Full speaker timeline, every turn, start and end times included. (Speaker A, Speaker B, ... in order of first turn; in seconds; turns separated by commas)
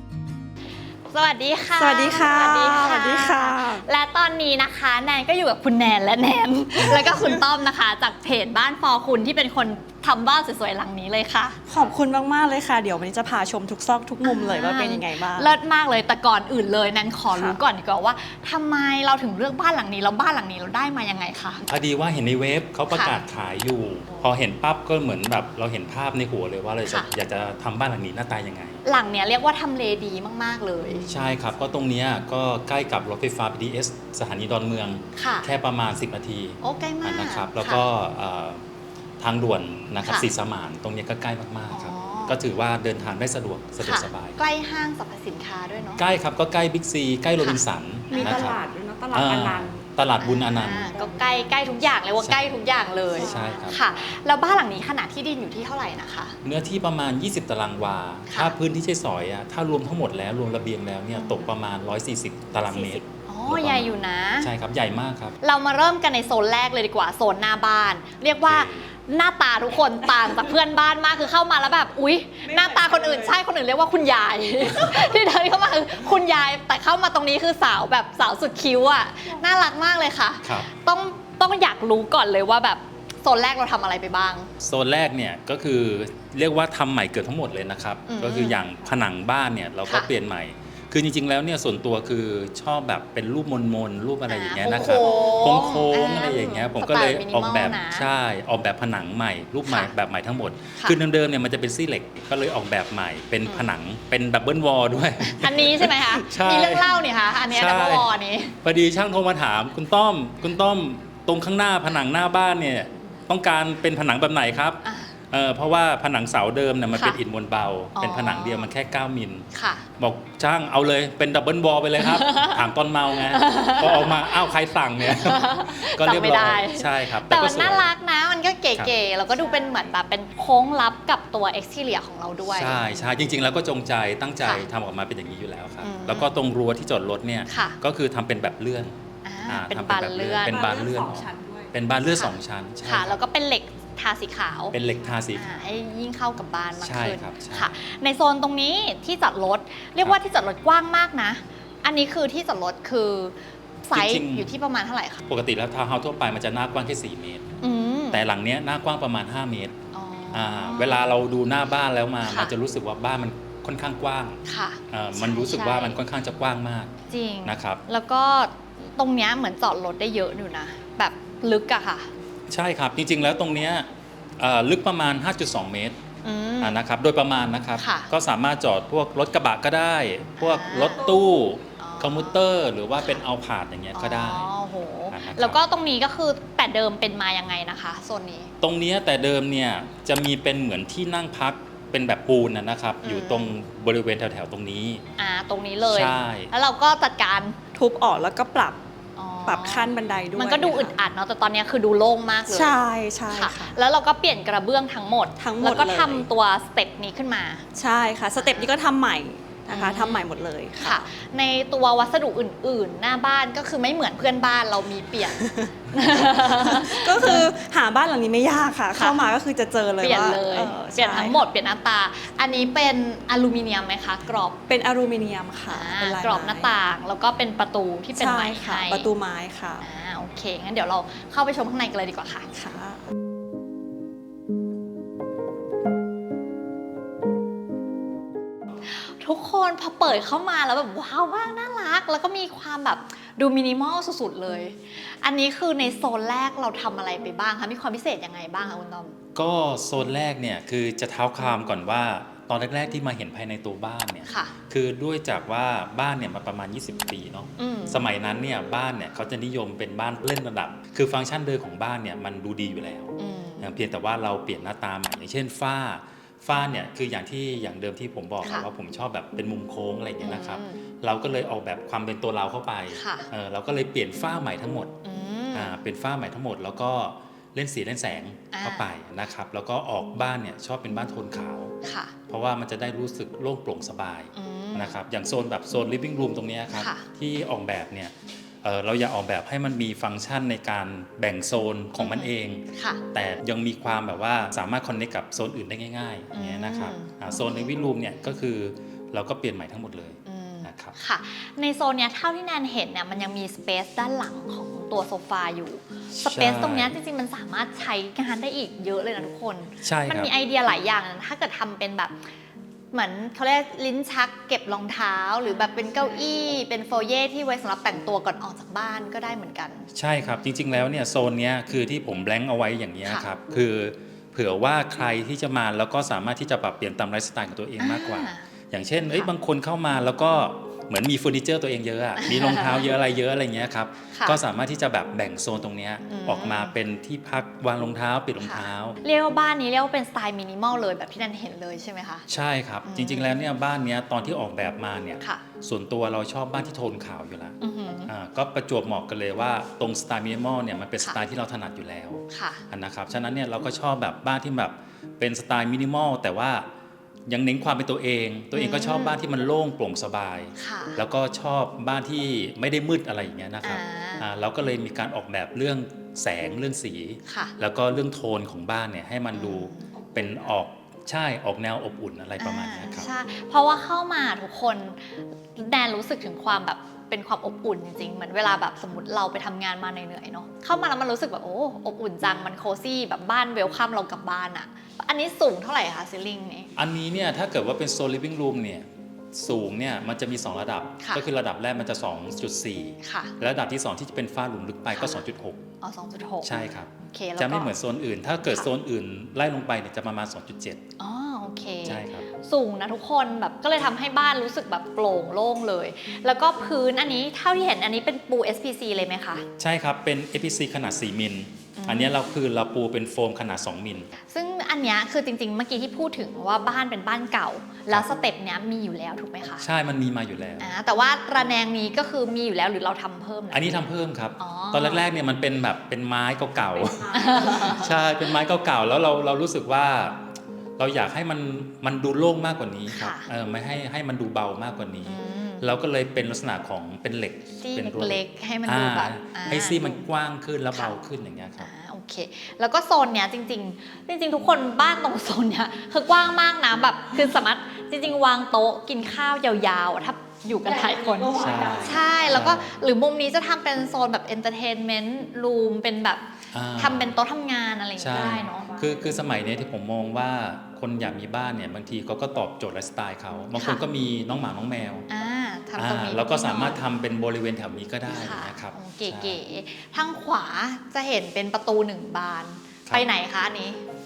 Speaker A: 1.1-11.6, Speaker B: 1.8-3.8, Speaker B: 11.7-15.6, Speaker A: 14.2-21.6, Speaker B: 17.3-17.6, Speaker C: 21.6-28.8, Speaker A: 22.9-23.2, Speaker A: 26.9-27.1, Speaker A: 28.8-31.1, Speaker C: 31.1-38.6, Speaker A: 35.1-35.5, Speaker A: 36.6-37.8, Speaker C: 39.2-44.4, Speaker A: 40.0-40.3, Speaker A: 41.7-42.4, Speaker A: 43.8-46.0, Speaker C: 46.0-48.6, Speaker A: 47.4-48.5, Speaker B: 48.1-49.8, Speaker C: 49.1-50.9, Speaker A: 50.2-56.4, Speaker C: 52.2-52.6, Speaker B: 53.1-53.7, Speaker C: 53.2-53.8, Speaker C: 56.4-63.9, Speaker A: 58.3-58.5, Speaker A: 61.1-61.5, Speaker A: 62.7-64.5, Speaker C: 64.4-65.4, Speaker A: 65.4-84.5, Speaker C: 68.4-68.9, Speaker B: 72.4-73.3, Speaker C: 84.6-108.1, Speaker A: 88.0-88.6, Speaker A: 94.3-98.1, Speaker B: 95.1-95.3, Speaker A: 99.7-99.9, Speaker A: 105.2-108.5, Speaker C: 108.6-127.9, Speaker A: 114.8-115.1, Speaker A: 117.9-118.7, Speaker A: 119.5-119.8, Speaker A: 122.0-122.7, Speaker A: 123.2-124.5, Speaker A: 125.0-132.9, Speaker C: 132.4-143.2, Speaker A: 135.8-136.3, Speaker A: 137.5-137.8, Speaker A: 139.2-140.6, Speaker B: 140.5-141.7, Speaker A: 142.1-144.8, Speaker C: 144.7-145.5, Speaker A: 145.3-155.2, Speaker C: 146.8-147.7, Speaker C: 153.9-154.5, Speaker C: 155.3-157.4, Speaker A: 157.6-158.2, Speaker C: 158.1-159.7, Speaker A: 159.9-161.1, Speaker C: 160.3-164.4, Speaker A: 162.2-162.5, Speaker A: 164.4-166.0, Speaker C: 164.9-166.9, Speaker A: 167.1-172.1, Speaker C: 167.4-167.8, Speaker C: 172.5-176.0, Speaker A: 176.2-176.8, Speaker C: 176.6-184.5, Speaker A: 177.8-178.1, Speaker A: 180.4-181.1, Speaker A: 181.8-182.4, Speaker A: 183.9-188.5, Speaker C: 185.1-185.6, Speaker C: 188.6-195.0, Speaker A: 193.0-193.5, Speaker A: 195.2-197.6, Speaker C: 195.8-196.5, Speaker B: 197.7-198.8, Speaker A: 199.2-202.7, Speaker B: 199.4-200.9, Speaker B: 202.5-203.8, Speaker A: 203.3-207.6, Speaker B: 205.4-206.3, Speaker B: 207.7-211.0, Speaker A: 208.4-208.7, Speaker A: 209.7-210.2, Speaker A: 210.8-217.5, Speaker B: 215.4-215.7, Speaker B: 216.4-221.4, Speaker A: 218.9-219.2, Speaker A: 220.0-224.6, Speaker B: 224.7-226.7, Speaker A: 225.7-229.1, Speaker B: 228.1-229.8, Speaker A: 229.8-232.5, Speaker B: 232.5-233.0, Speaker A: 238.8-249.1, Speaker C: 249.3-274.9, Speaker A: 254.2-254.5, Speaker A: 257.6-258.0, Speaker A: 263.2-263.7, Speaker A: 268.4-268.7, Speaker A: 270.2-270.8, Speaker A: 272.9-273.3, Speaker A: 275.0-275.8, Speaker C: 275.5-281.7, Speaker A: 278.5-278.9, Speaker A: 281.8-282.1, Speaker C: 282.3-300.9, Speaker A: 284.3-285.0, Speaker A: 286.7-287.0, Speaker A: 292.0-293.0, Speaker A: 296.3-297.7, Speaker A: 300.2-312.2, Speaker C: 306.1-307.0, Speaker C: 309.8-310.3, Speaker A: 312.9-319.9, Speaker C: 319.9-339.0, Speaker A: 327.8-328.4, Speaker A: 332.2-332.8, Speaker A: 334.1-334.4, Speaker A: 336.0-336.7, Speaker A: 338.4-342.3, Speaker C: 342.3-356.7, Speaker A: 342.8-343.3, Speaker A: 347.6-348.1, Speaker A: 352.3-352.6, Speaker C: 357.3-373.1, Speaker A: 358.5-359.2, Speaker A: 360.6-361.0, Speaker A: 363.6-364.2, Speaker A: 367.2-367.5, Speaker A: 369.3-369.9, Speaker A: 372.4-386.7, Speaker C: 386.8-395.6, Speaker A: 393.0-393.3, Speaker A: 394.9-395.2, Speaker A: 395.8-396.5, Speaker C: 396.4-400.8, Speaker A: 397.0-397.7, Speaker A: 401.0-409.4, Speaker C: 401.8-402.3, Speaker C: 409.6-414.1, Speaker A: 411.8-412.1, Speaker A: 414.3-419.6, Speaker C: 419.6-420.7, Speaker A: 420.6-423.7, Speaker C: 423.5-441.7, Speaker A: 424.4-425.0, Speaker B: 426.8-427.7, Speaker A: 427.1-427.9, Speaker A: 432.9-433.3, Speaker A: 435.0-435.7, Speaker A: 437.6-440.0, Speaker A: 440.7-441.0, Speaker A: 441.6-456.2, Speaker C: 451.3-452.8, Speaker B: 451.4-452.2, Speaker C: 456.5-457.1, Speaker A: 456.8-458.8, Speaker C: 458.0-465.1, Speaker A: 463.6-463.8, Speaker A: 465.1-466.8, Speaker C: 465.8-469.4, Speaker A: 468.1-473.8